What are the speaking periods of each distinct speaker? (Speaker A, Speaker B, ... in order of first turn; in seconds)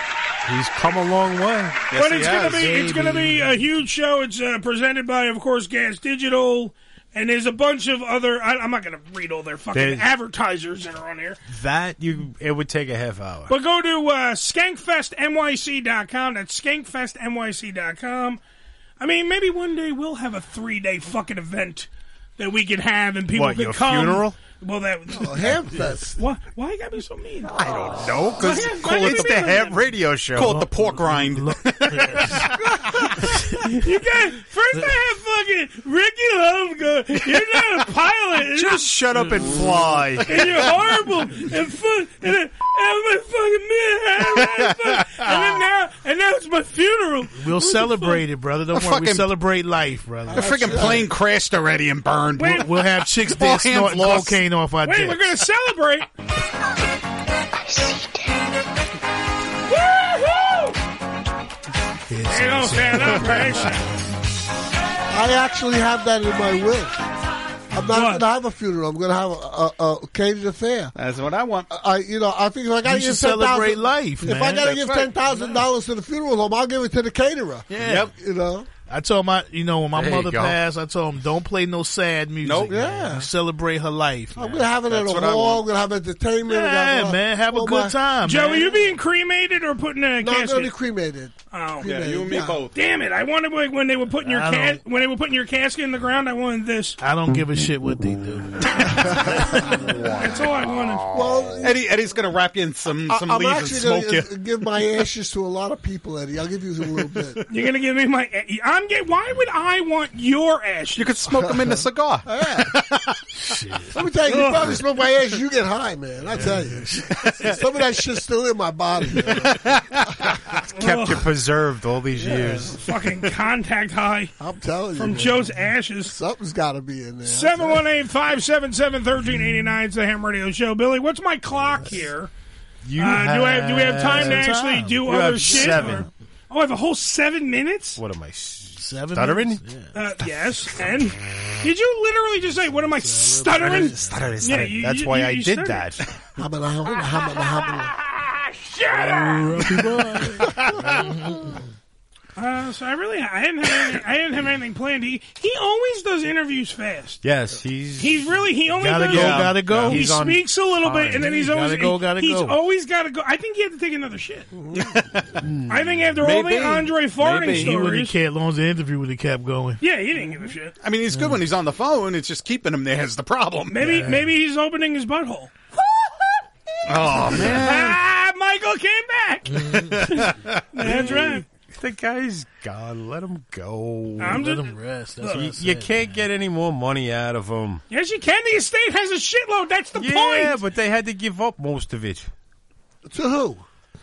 Speaker A: 0.4-1.9, 9.7-10.1, 11.5-13.5, 23.3-24.4, 27.6-30.6, 38.5-40.6, 79.9-80.6, 120.8-122.8, 132.8-136.1, 138.0-139.6, 143.6-146.0, 157.2-158.2, 159.1-161.3, 165.4-166.3, 177.3-177.9, 180.8-184.5, 185.3-187.8, 189.9-192.3
Speaker B: 1.9-2.9, 30.4-32.4, 48.7-49.3, 50.3-54.5, 71.0-71.7, 74.6-75.1, 77.8-78.1, 82.4-82.7, 84.8-85.6, 91.8-92.8, 101.6-104.3, 111.0-113.0, 159.2-160.0, 164.8-165.3, 166.2-167.7, 170.8-173.9, 176.9-177.8, 179.9-180.5
Speaker C: 1.9-11.4, 13.5-18.4, 19.0-25.5, 26.2-29.8, 33.8-38.9, 40.3-48.2, 52.4-52.7, 54.8-56.1, 59.7-60.7, 62.3-63.9, 67.9-68.2, 88.2-90.7, 91.5-91.9, 92.7-97.0, 100.2-101.1, 107.5-111.2, 114.3-114.6, 120.7-121.2, 122.3-124.3, 125.0-126.1, 127.3-132.3, 133.0-138.0, 139.9-145.9, 148.8-149.3, 152.4-157.2, 158.0-164.5, 165.7-168.2, 169.8-170.8, 173.7-175.6, 177.4-181.4, 184.2-185.5, 187.9-190.6
Speaker D: 25.1-26.2, 50.3-51.1, 65.1-67.0, 67.7-70.9, 71.7-78.7, 82.7-83.3, 84.4-88.0, 90.2-92.7, 99.1-100.0, 101.1-101.9, 103.1-107.4, 111.4-112.7, 113.9-119.7, 122.2-122.6, 124.4-125.5, 126.1-127.8, 146.4-147.9, 164.5-164.8, 193.1-193.7
Speaker E: 30.4-32.5, 47.4-51.0, 52.5-55.4, 62.1-63.8, 72.8-74.8, 77.7-78.1, 78.9-84.4, 86.5-88.8, 94.2-94.8, 97.0-99.9, 113.4-114.0, 116.3-117.1, 134.1-135.9, 138.8-139.9, 142.9-144.3, 148.9-151.6, 158.8-160.1, 161.1-162.6, 167.4-169.8, 171.1-171.4, 179.5-179.9, 184.3-186.0